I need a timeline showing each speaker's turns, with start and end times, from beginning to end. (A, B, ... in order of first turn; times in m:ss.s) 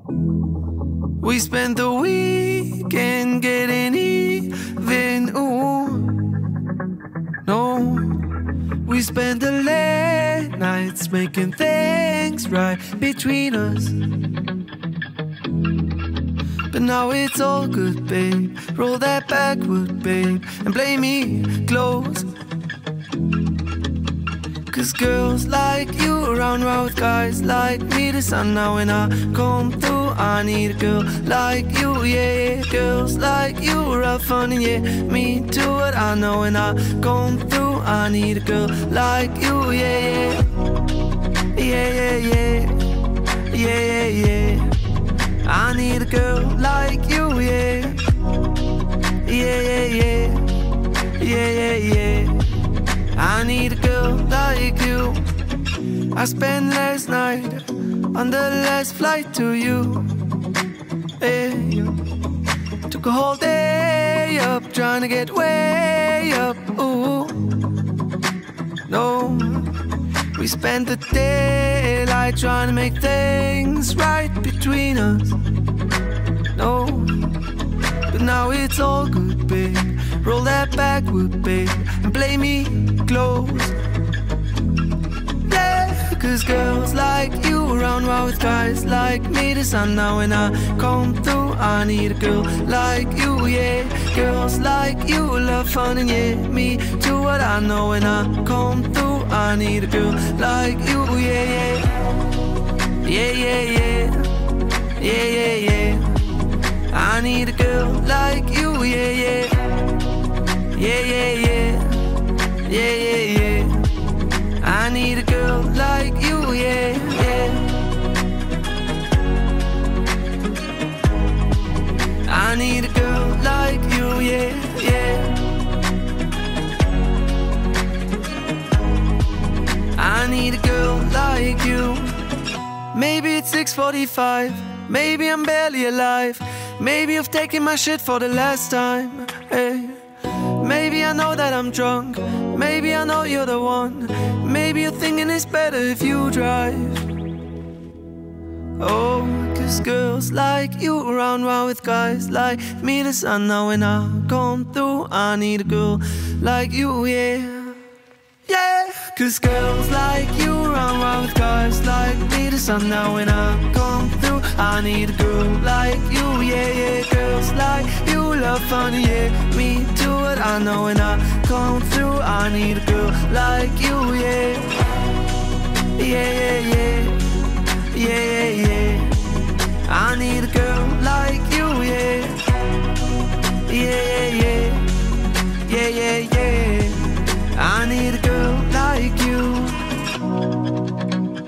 0:01.2-0:06.4 A
0:07.4-0:14.2 A
0:16.7-0:22.3 A
0:24.7-0:40.6 A
0:41.5-0:44.8 A
0:45.4-0:48.1 A
0:49.2-0:52.6 A
0:53.1-0:55.3 A
0:56.1-1:00.2 A
1:01.2-1:02.0 A
1:02.9-1:07.6 A
1:08.9-1:09.8 A
1:10.3-1:15.4 A
1:16.5-1:17.4 A
1:18.1-1:23.8 A
1:25.5-1:42.1 A
1:43.0-1:44.4 A
1:45.0-1:49.9 A
1:50.6-1:54.0 A
1:54.6-1:57.9 A
2:02.2-2:05.6 A
2:09.9-2:12.2 A
2:12.9-2:27.2 A
2:28.8-2:37.8 A
2:38.5-2:54.8 A
2:55.9-3:02.6 A
3:03.6-3:10.0 A